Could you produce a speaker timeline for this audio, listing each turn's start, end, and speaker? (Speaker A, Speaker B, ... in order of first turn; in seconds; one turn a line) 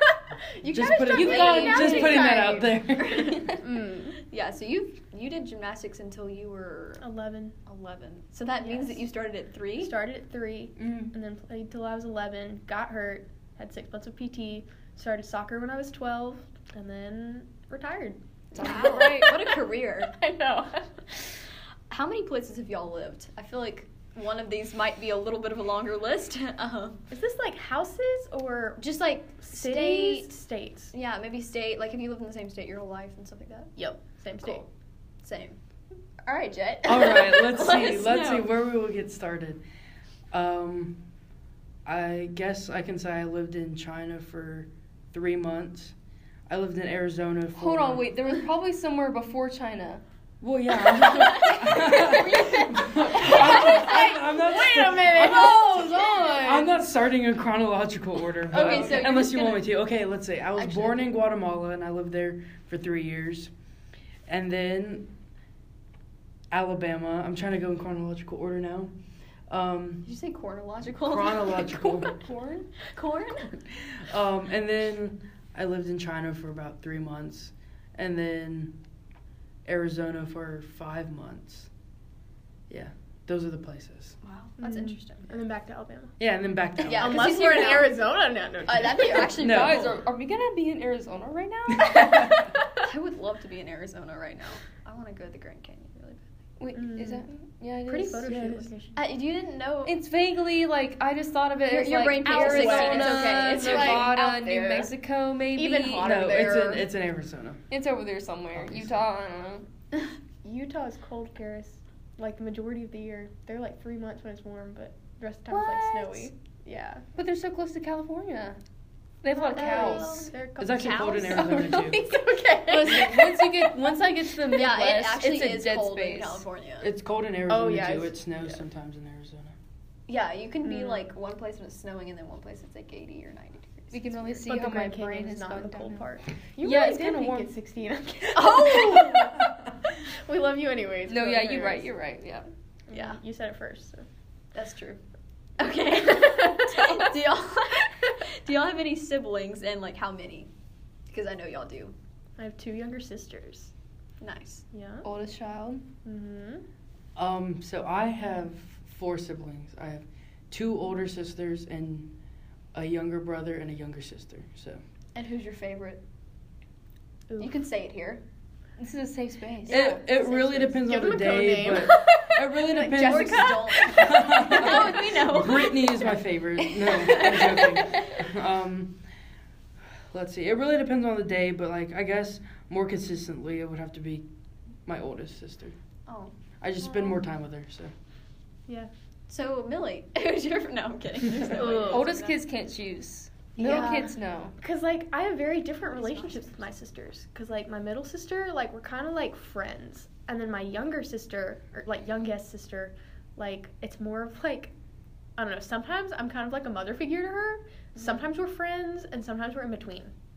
Speaker A: 0.6-3.6
Speaker B: 0.6-3.5
Speaker C: 0.7-4.2
Speaker D: 1.1-2.4
Speaker A: 4.1-7.0
Speaker C: 7.0-7.6
Speaker A: 7.7-10.0
Speaker C: 8.6-9.0
Speaker C: 9.8-21.2
Speaker A: 18.5-20.1
Speaker D: 18.6-18.9
Speaker A: 21.9-27.1
Speaker C: 27.1-28.8
Speaker A: 28.8-30.3
Speaker C: 29.4-30.9
Speaker A: 30.9-33.7
Speaker C: 33.8-34.6
Speaker A: 34.4-34.7
Speaker A: 35.2-35.6
Speaker A: 36.2-38.5
Speaker B: 36.8-39.6
Speaker B: 40.3-41.0
Speaker B: 41.8-45.9
Speaker B: 46.5-48.1
Speaker D: 47.5-50.0
Speaker B: 50.4-63.5
Speaker A: 50.8-54.1
Speaker C: 53.3-55.8
Speaker D: 55.1-56.8
Speaker A: 58.5-59.7
Speaker D: 58.5-59.1
Speaker A: 60.6-61.0
Speaker B: 64.3-65.1
Speaker B: 66.5-68.9
Speaker B: 69.5-70.1
Speaker A: 70.0-73.6
Speaker B: 71.0-72.2
Speaker B: 73.9-78.8
Speaker B: 79.6-81.7
Speaker B: 82.7-84.2
Speaker A: 84.2-85.3
Speaker C: 84.6-86.2
Speaker B: 86.2-87.4
Speaker A: 86.8-88.0
Speaker C: 86.9-89.4
Speaker A: 88.7-90.0
Speaker D: 89.2-92.3
Speaker B: 89.4-89.9
Speaker B: 91.7-92.5
Speaker A: 92.8-96.3
Speaker D: 96.6-98.7
Speaker C: 96.7-97.2
Speaker C: 97.8-99.0
Speaker A: 98.9-100.0
Speaker D: 99.8-106.3
Speaker A: 101.7-104.9
Speaker C: 102.2-104.1
Speaker C: 105.5-106.9
Speaker B: 106.0-107.6
Speaker D: 107.7-109.7
Speaker B: 108.5-108.9
Speaker C: 110.4-117.0
Speaker A: 115.5-116.3
Speaker D: 117.2-118.6
Speaker D: 119.2-120.3
Speaker C: 119.3-123.5
Speaker A: 119.5-121.5
Speaker B: 120.6-122.1
Speaker D: 121.4-122.0
Speaker D: 122.6-126.4
Speaker A: 122.9-123.2
Speaker A: 124.4-126.9
Speaker B: 126.8-129.5
Speaker C: 127.5-128.6
Speaker A: 130.1-134.4
Speaker C: 130.6-131.0
Speaker D: 133.9-136.0
Speaker C: 134.5-139.5
Speaker D: 136.6-137.5
Speaker A: 138.3-139.4
Speaker C: 140.1-141.9
Speaker D: 141.1-142.5
Speaker C: 142.9-144.0
Speaker A: 142.9-143.2
Speaker A: 144.5-145.0
Speaker A: 145.6-150.5
Speaker C: 146.2-147.0
Speaker A: 151.1-151.9
Speaker C: 152.4-153.7
Speaker A: 154.2-154.6
Speaker C: 154.7-155.1
Speaker D: 155.0-155.8
Speaker C: 156.0-156.6
Speaker B: 157.2-162.1
Speaker B: 162.7-164.8
Speaker A: 165.1-166.0
Speaker A: 167.4-168.2
Speaker D: 168.8-169.9
Speaker A: 169.7-170.8
Speaker B: 169.7-179.0
Speaker C: 170.8-175.1
Speaker A: 172.8-175.9
Speaker A: 176.8-178.1
Speaker B: 180.1-184.3
Speaker B: 184.8-185.8
Speaker A: 186.1-186.3
Speaker B: 186.6-187.9
Speaker C: 186.8-187.2
Speaker A: 189.3-192.4
Speaker C: 191.5-192.0
Speaker D: 191.6-194.5
Speaker A: 193.6-194.1
Speaker C: 193.6-194.1
Speaker C: 194.6-204.7
Speaker A: 195.9-196.7
Speaker C: 205.4-210.1